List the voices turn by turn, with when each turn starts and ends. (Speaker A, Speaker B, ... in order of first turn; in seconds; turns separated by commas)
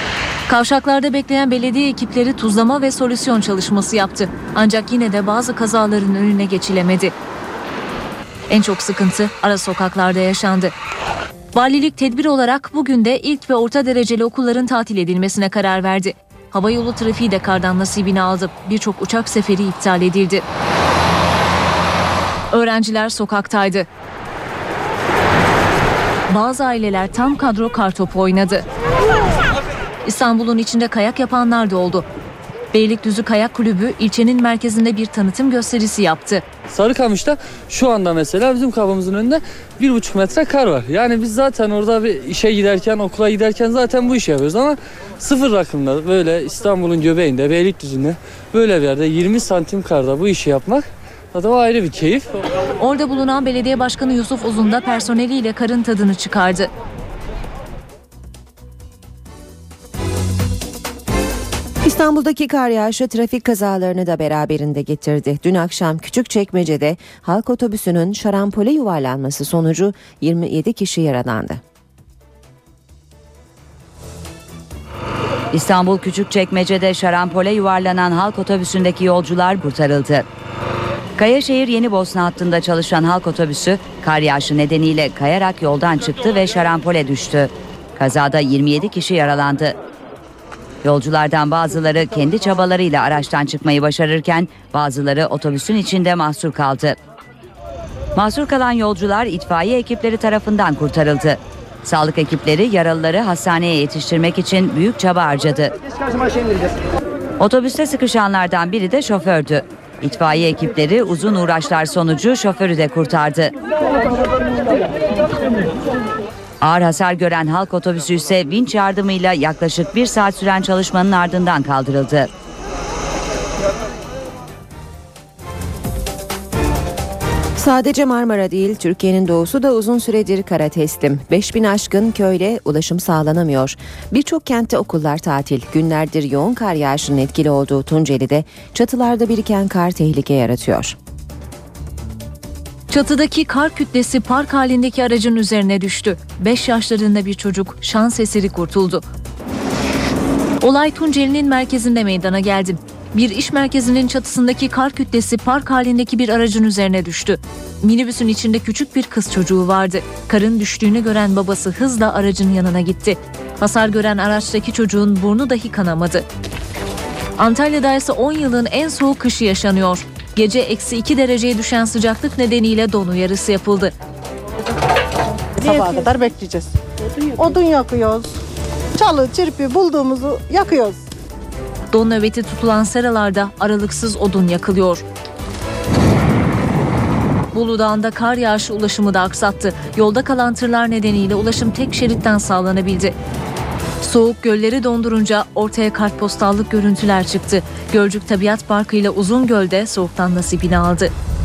Speaker A: 0.5-7.1, Speaker A: 8.5-10.7, Speaker A: 11.5-20.4, Speaker A: 22.5-23.9, Speaker A: 26.3-28.6, Speaker A: 30.0-32.0, Speaker A: 32.7-36.4, Speaker B: 36.7-52.3, Speaker A: 52.8-56.7, Speaker C: 61.8-71.6, Speaker D: 75.5-80.2, Speaker D: 81.2-89.7, Speaker D: 90.8-97.0, Speaker D: 98.2-105.7, Speaker D: 107.4-113.5, Speaker D: 116.6-122.3, Speaker C: 127.6-140.9, Speaker A: 142.9-149.0, Speaker A: 150.6-166.2, Speaker A: 167.4-173.9, Speaker E: 175.6-178.3, Speaker E: 179.0-181.0, Speaker A: 181.9-185.0, Speaker A: 187.5-193.1, Speaker A: 194.0-201.1